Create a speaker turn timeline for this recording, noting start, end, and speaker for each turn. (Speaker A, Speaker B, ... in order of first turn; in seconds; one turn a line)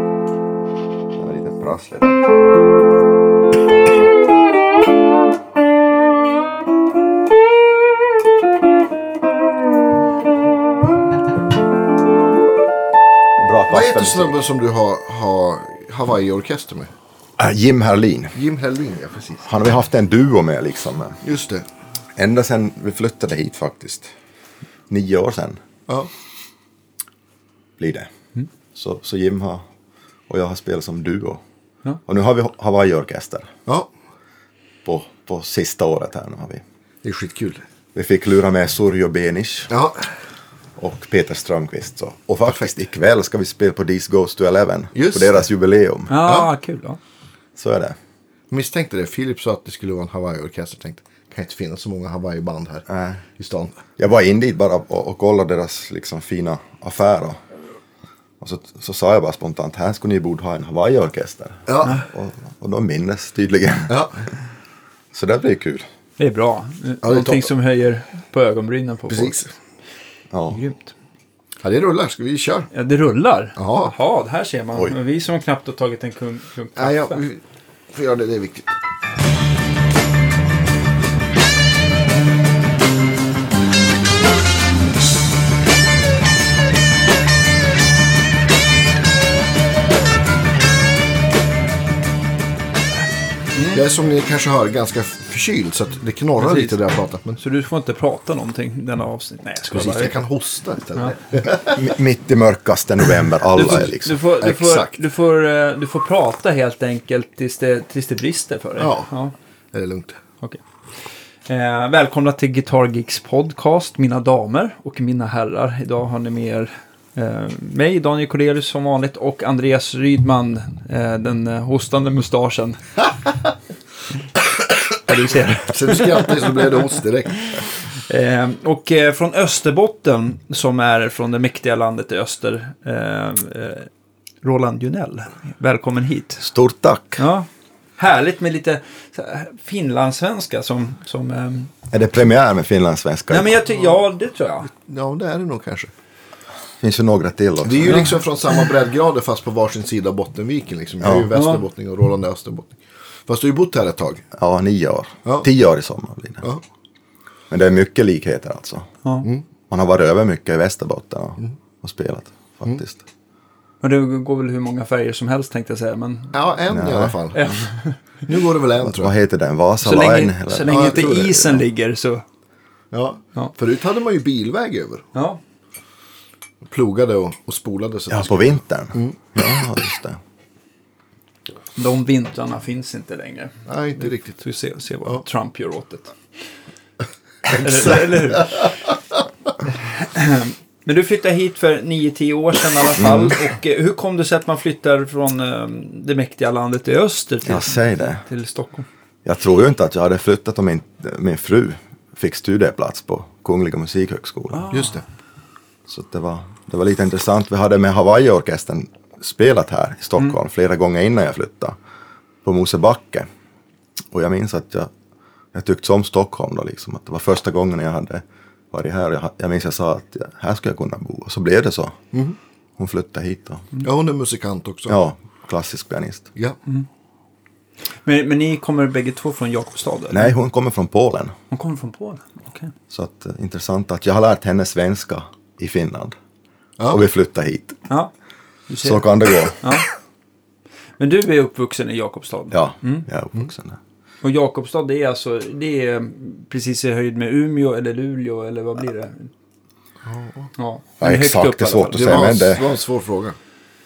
Speaker A: 1.1-2.2
Speaker A: 13.4-14.3
Speaker B: 13.7-16.9
Speaker A: 17.4-18.4
Speaker B: 18.3-19.5
Speaker A: 19.4-21.2
Speaker B: 21.2-21.6
Speaker A: 22.1-24.1
Speaker A: 24.9-25.6
Speaker A: 27.8-28.1
Speaker A: 28.7-29.6
Speaker A: 30.3-31.4
Speaker A: 32.1-33.5
Speaker A: 34.8-36.6
Speaker B: 37.0-37.6
Speaker A: 37.9-39.7
Speaker B: 39.7-40.1
Speaker A: 40.8-46.2
Speaker B: 44.9-45.3
Speaker C: 46.1-47.0
Speaker A: 47.6-48.0
Speaker B: 48.5-53.8
Speaker A: 52.9-53.2
Speaker A: 54.0-57.4
Speaker A: 58.4-64.1
Speaker B: 61.7-62.0
Speaker B: 63.9-64.2
Speaker A: 65.1-65.8
Speaker C: 66.2-69.4
Speaker B: 67.0-67.5
Speaker B: 69.1-69.5
Speaker A: 70.3-70.6
Speaker C: 70.5-70.9
Speaker B: 71.6-72.7
Speaker C: 72.7-77.2
Speaker B: 73.5-73.9
Speaker B: 76.8-77.4
Speaker B: 77.9-78.7
Speaker C: 93.5-93.8
Speaker B: 93.7-97.4
Speaker C: 96.4-96.8
Speaker C: 97.4-100.2
Speaker B: 99.7-101.8
Speaker A: 101.7-104.2
Speaker C: 103.5-109.3
Speaker B: 104.4-105.0
Speaker B: 108.8-109.1
Speaker B: 109.7-110.2
Speaker C: 111.5-122.8
Speaker C: 125.0-126.5
Speaker B: 125.7-127.5
Speaker C: 128.0-133.9
Speaker C: 134.4-136.5
Speaker A: 136.4-137.2
Speaker C: 137.2-141.7
Speaker A: 141.9-143.6
Speaker C: 143.3-144.7
Speaker B: 144.7-145.9
Speaker A: 146.8-148.1
Speaker B: 147.6-154.2
Speaker C: 151.3-151.6
Speaker A: 154.3-156.5
Speaker A: 157.5-158.9
Speaker A: 159.7-163.0
Speaker C: 163.8-166.4
Speaker B: 166.3-167.4
Speaker A: 166.7-167.2
Speaker C: 167.3-168.0
Speaker B: 168.2-169.1
Speaker A: 168.8-171.6
Speaker C: 169.8-172.2
Speaker B: 170.7-171.5
Speaker B: 172.9-175.0
Speaker C: 175.1-175.4
Speaker B: 176.7-179.2
Speaker A: 178.1-180.2
Speaker C: 181.8-186.1
Speaker B: 183.7-184.4
Speaker C: 187.5-188.7
Speaker C: 189.8-198.9
Speaker A: 193.0-193.3
Speaker A: 197.4-198.2
Speaker A: 199.2-204.7
Speaker C: 204.5-205.0
Speaker B: 204.7-205.0
Speaker A: 205.9-211.8
Speaker A: 212.4-213.3
Speaker A: 214.1-214.9
Speaker A: 215.5-222.0
Speaker A: 222.8-223.7
Speaker B: 223.8-224.9
Speaker A: 224.9-226.3
Speaker C: 228.0-230.3
Speaker A: 230.1-231.3
Speaker C: 231.5-232.7
Speaker A: 232.9-236.2
Speaker B: 236.8-237.0
Speaker A: 236.9-237.8
Speaker C: 238.7-239.9
Speaker A: 238.8-239.6
Speaker C: 241.0-243.1
Speaker A: 242.5-243.8
Speaker C: 244.2-249.3
Speaker B: 250.0-250.5
Speaker C: 250.6-252.4
Speaker A: 251.0-252.7
Speaker B: 251.9-253.4